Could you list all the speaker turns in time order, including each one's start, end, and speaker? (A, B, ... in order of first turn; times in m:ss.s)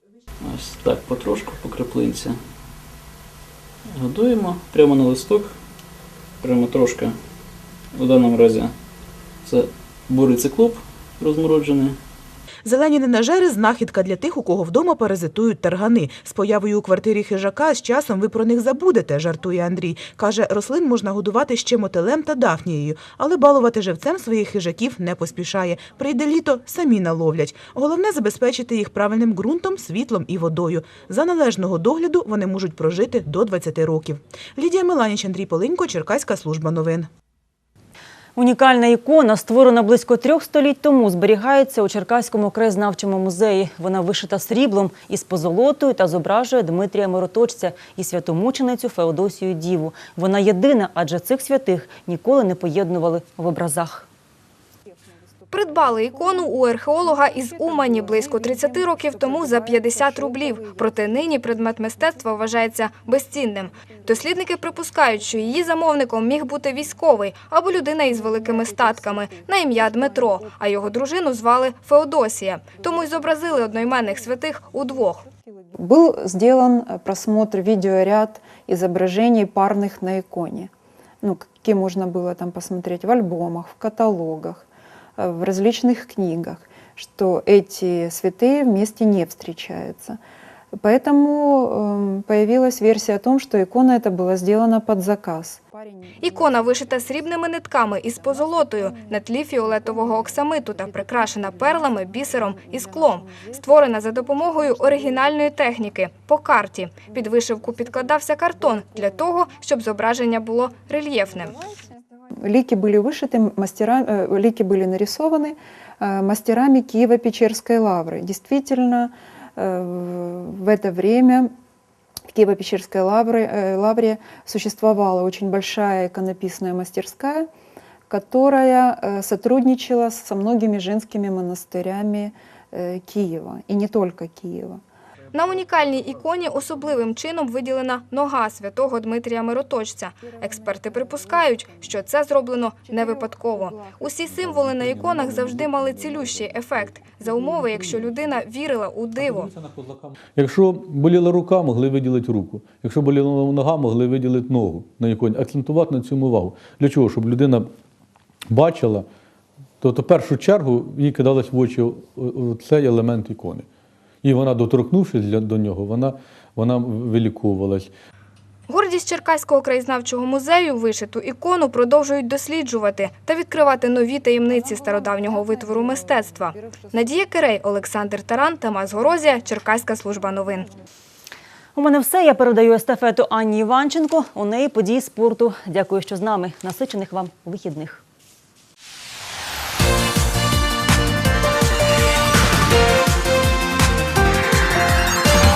0:00.4-0:02.4 A
0:03.9-0:05.5 A
0:06.4-0:07.2 A
0:08.0-0:08.7 A
0:09.4-0:12.0 A
0:12.6-0:37.1 B
0:38.4-0:54.1 C
0:55.5-1:15.3 D
1:15.8-1:20.7 E
1:21.2-1:30.2 E
1:30.8-1:35.6 E
1:36.2-1:51.6 D
1:52.4-2:01.5 E
2:02.3-2:07.5 E
2:08.1-2:14.8 E
2:15.3-2:29.5 D
2:29.2-2:37.7 F
2:38.5-2:39.1 F
2:39.8-2:43.7 F
2:44.2-2:47.9 F
2:48.7-3:00.7 D
3:01.8-3:08.0 C